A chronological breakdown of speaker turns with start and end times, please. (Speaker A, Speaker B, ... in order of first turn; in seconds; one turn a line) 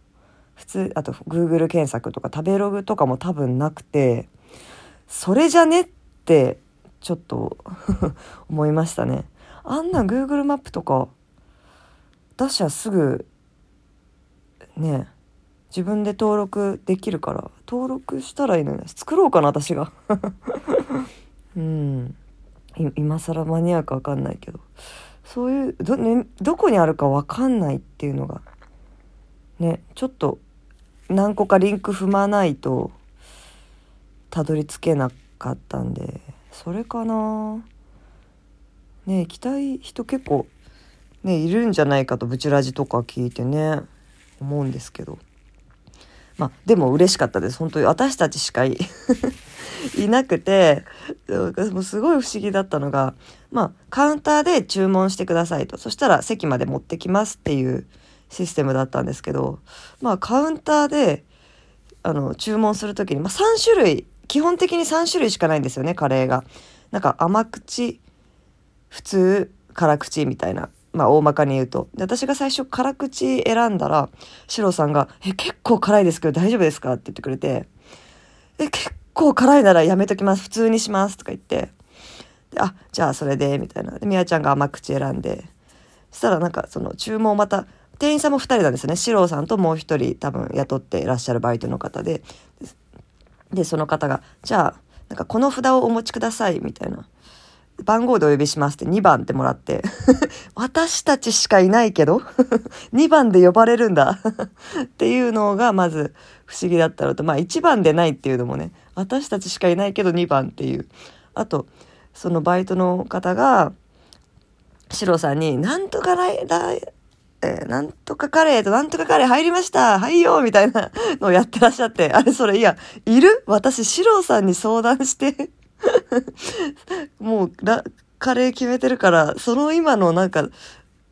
Speaker A: 0.6-4.3
Speaker A: 5.1-11.1
Speaker A: 12.4-13.3
Speaker A: 14.8-15.1
Speaker A: 15.7-21.0
Speaker A: 21.6-22.2
Speaker A: 22.8-24.7
Speaker A: 25.2-28.4
Speaker A: 29.6-30.4
Speaker A: 31.1-33.0
Speaker A: 34.3-37.6
Speaker A: 39.1-40.5
Speaker A: 41.2-43.9
Speaker A: 44.4-45.2
Speaker A: 46.4-49.3
Speaker A: 50.0-61.2
Speaker A: 62.0-68.0
Speaker A: 68.9-77.7
Speaker A: 78.6-81.7
Speaker A: 82.5-85.5
Speaker A: 86.1-92.3
Speaker A: 93.5-97.1
Speaker A: 97.8-104.2
Speaker A: 105.0-113.7
Speaker A: 114.9-116.8
Speaker A: 117.4-130.5